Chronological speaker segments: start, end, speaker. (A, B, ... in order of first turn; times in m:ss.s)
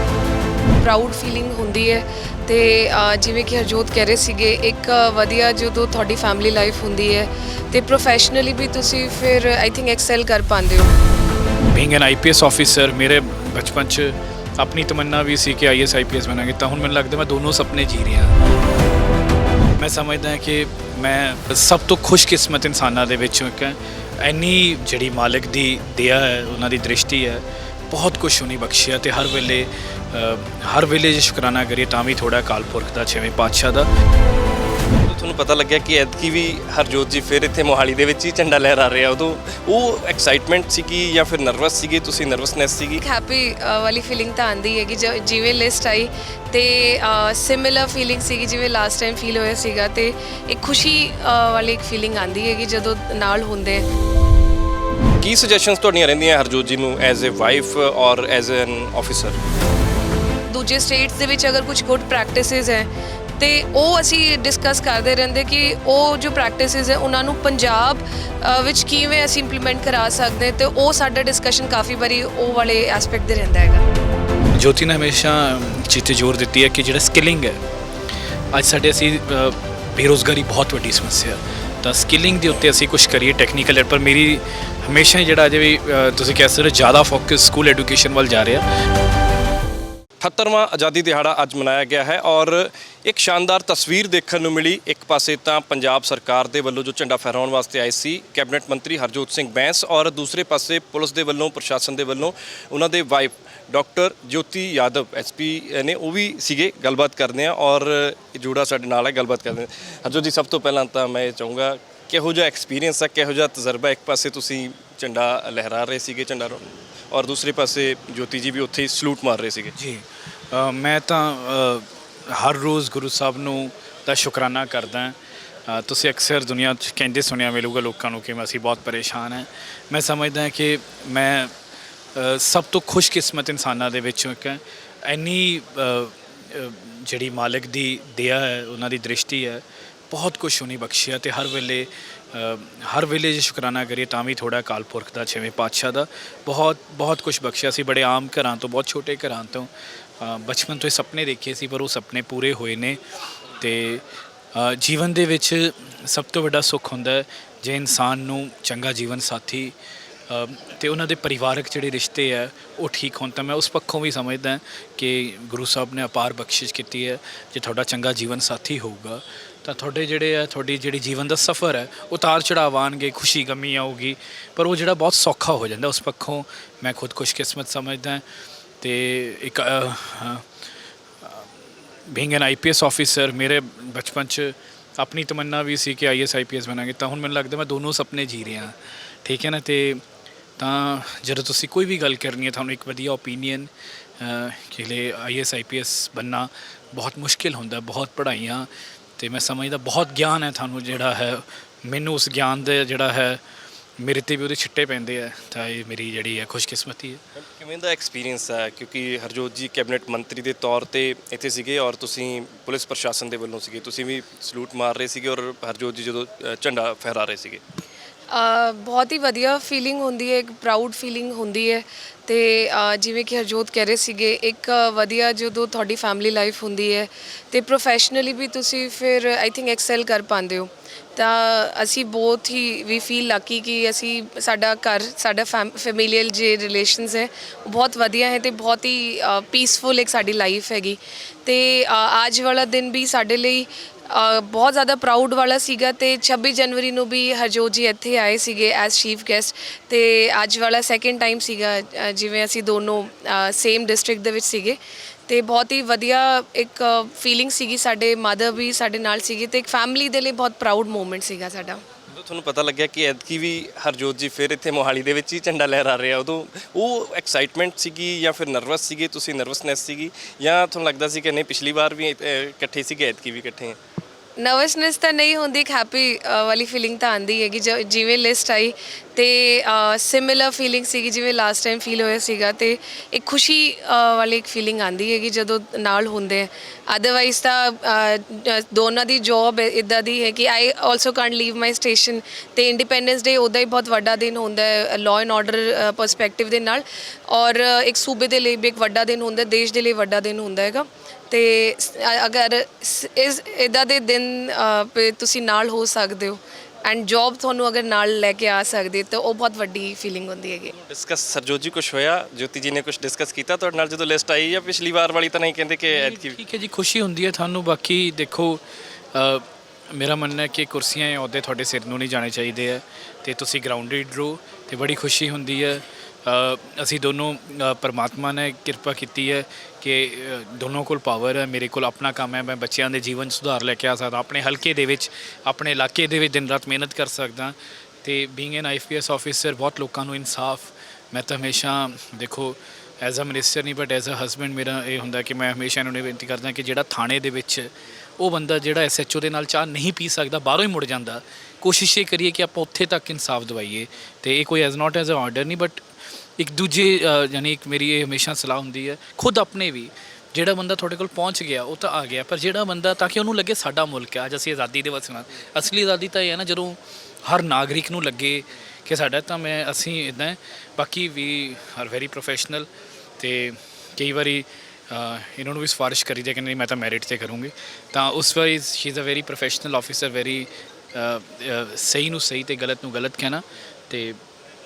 0:00.8-0:10.9 A
0:11.7-0:18.3 B
0:19.8-0:33.9 B
0:35.1-0:43.0 C
0:43.0-0:53.8 A
0:55.2-0:59.4 C
1:00.5-1:13.8 A
1:14.6-1:17.6 B
1:18.5-1:28.6 B
1:30.2-1:59.7 C
1:59.7-2:11.5 B
2:12.1-2:33.0 B
2:33.6-2:39.7 B
2:40.3-2:58.2 B
2:58.8-3:00.5 B
3:01.2-3:01.5 B
3:02.1-3:10.0 B
3:10.6-3:23.4 B
3:24.0-3:27.2 B
3:27.4-3:37.6 C
3:38.3-4:21.8 A
4:22.1-4:33.8 C
4:34.4-5:10.7 A
5:10.7-5:16.4 C
5:15.9-5:18.6 B
5:19.1-5:55.8 B
5:56.4-6:12.7 B
6:13.2-6:24.2 B